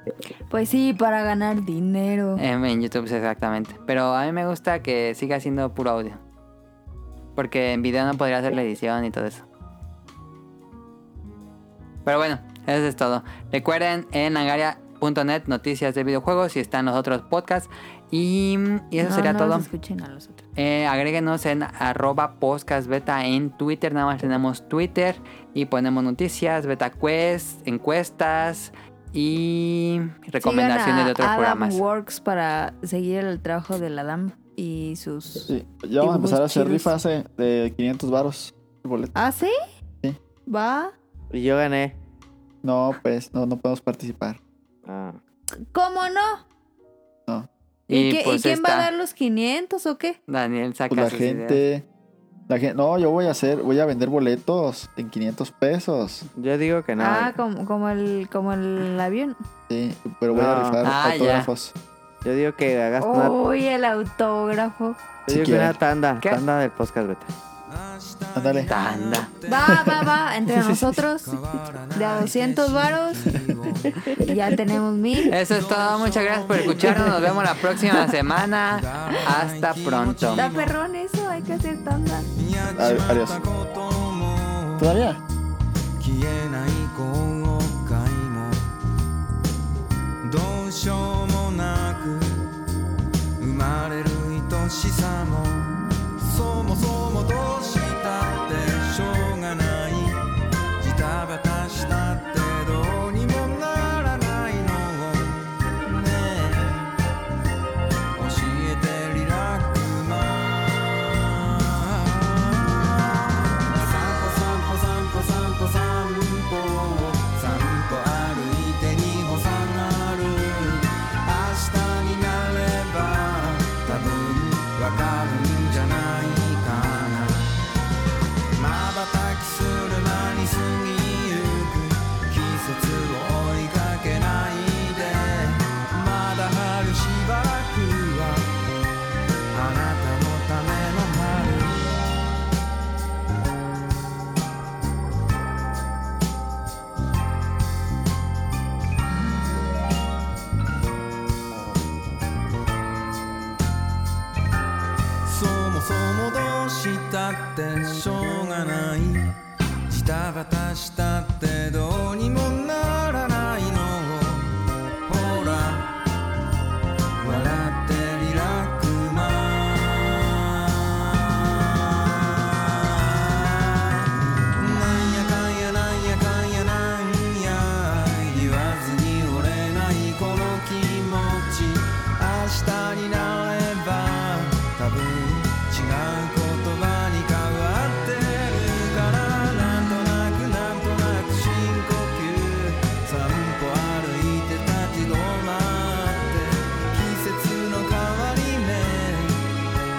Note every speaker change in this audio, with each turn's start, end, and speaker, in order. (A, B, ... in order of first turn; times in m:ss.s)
0:00.5-0:02.4 A
0:02.4-0:06.2 B
0:07.4-0:09.4 B
0:12.0-0:19.7 B
0:19.0-0:20.4 A
0:20.6-0:31.8 B
0:30.4-0:36.9 A
0:35.5-0:39.1 C
0:39.1-0:39.6 A
0:40.4-0:40.9 A
0:41.3-0:41.9 D
0:42.6-0:44.4 C
0:44.8-0:45.2 D
0:45.7-0:46.4 A
0:47.9-0:50.2 A
0:47.9-0:48.9 B
0:50.3-0:51.6 B
0:50.9-0:51.8 C
0:52.5-0:56.3 C
0:56.4-0:57.4 D
0:57.0-0:59.4 A
0:59.7-1:01.7 C
1:00.3-1:00.8 D
1:00.8-1:01.5 B
1:02.2-1:03.4 D
1:03.0-1:05.0 A
1:05.3-1:05.8 C
1:05.3-1:07.3 D
1:07.7-1:10.1 E
1:08.3-1:08.7 C
1:08.7-1:09.3 B
1:09.5-1:11.4 A
1:09.7-1:10.0 C
1:11.2-1:14.1 E
1:11.9-1:13.3 A
1:14.2-1:15.4 A
1:15.3-1:20.5 B
1:15.4-1:17.6 E
1:18.7-1:20.7 E
1:20.4-1:22.3 A
1:22.4-1:25.0 E
1:22.7-1:23.4 C
1:24.8-1:25.2 C
1:26.0-1:28.6 E
1:30.2-1:32.4 E
1:33.4-1:40.2 E
1:40.8-1:46.9 E
1:48.1-2:07.4 E
2:08.6-2:18.5 E
2:19.5-2:21.9 E
2:35.2-2:39.4 E
2:39.9-2:45.9 E
2:47.2-3:19.4 E